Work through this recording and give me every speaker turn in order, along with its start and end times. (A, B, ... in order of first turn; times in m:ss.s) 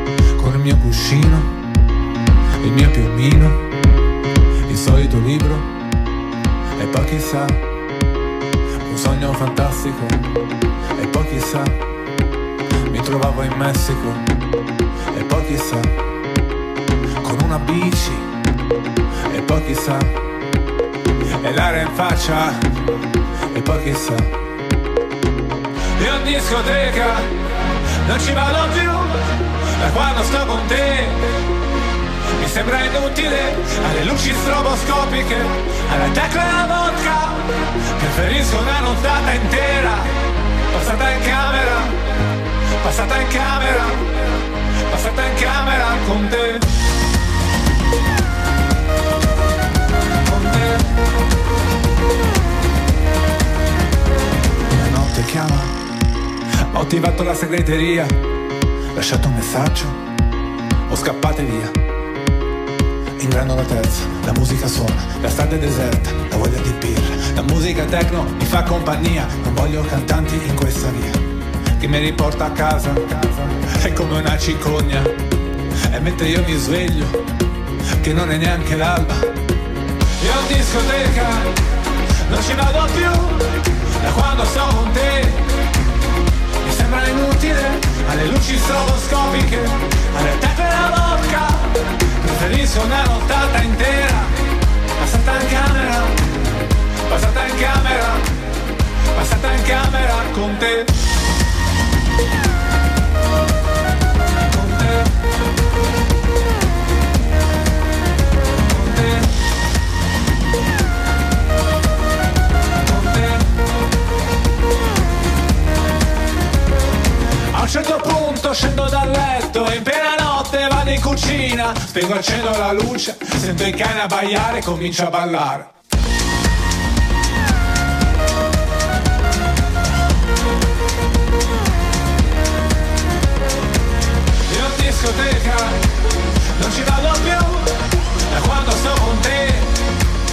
0:00.4-0:01.5 A
0:02.6-0:03.6 A
0:04.7-0:05.7 A
0:06.8-0:07.6 A
0:08.8-0:10.2 A
0:11.0-0:11.8 A
0:12.9-0:14.2 A
0:15.1-0:15.9 A
0:17.2-0:18.3 A
0:19.3-0:20.2 A
0:21.4-0:22.6 A
0:23.5-0:24.3 A
0:26.0-0:27.3 A
0:28.0-0:29.2 A
0:29.8-0:31.2 A
0:32.4-0:40.1 A
0:40.7-0:42.0 A
0:42.8-0:46.7 A
0:50.2-0:50.9 A
0:54.7-0:55.8 A
0:56.7-0:58.1 A
0:58.9-1:00.0 A
1:00.9-1:01.8 A
1:03.2-1:11.2 A
1:11.8-1:15.1 A
1:15.9-1:17.2 A
1:18.0-1:19.3 A
1:20.2-1:21.6 A
1:22.3-1:25.4 A
1:26.6-1:34.3 A
1:35.0-1:36.2 A
1:37.1-1:38.3 A
1:39.1-1:41.0 A
1:44.4-1:45.1 A
1:48.7-1:49.3 A
1:52.8-1:53.5 A
1:57.5-2:05.7 A
2:14.5-2:15.8 A
2:16.6-2:17.7 A
2:18.3-2:19.8 A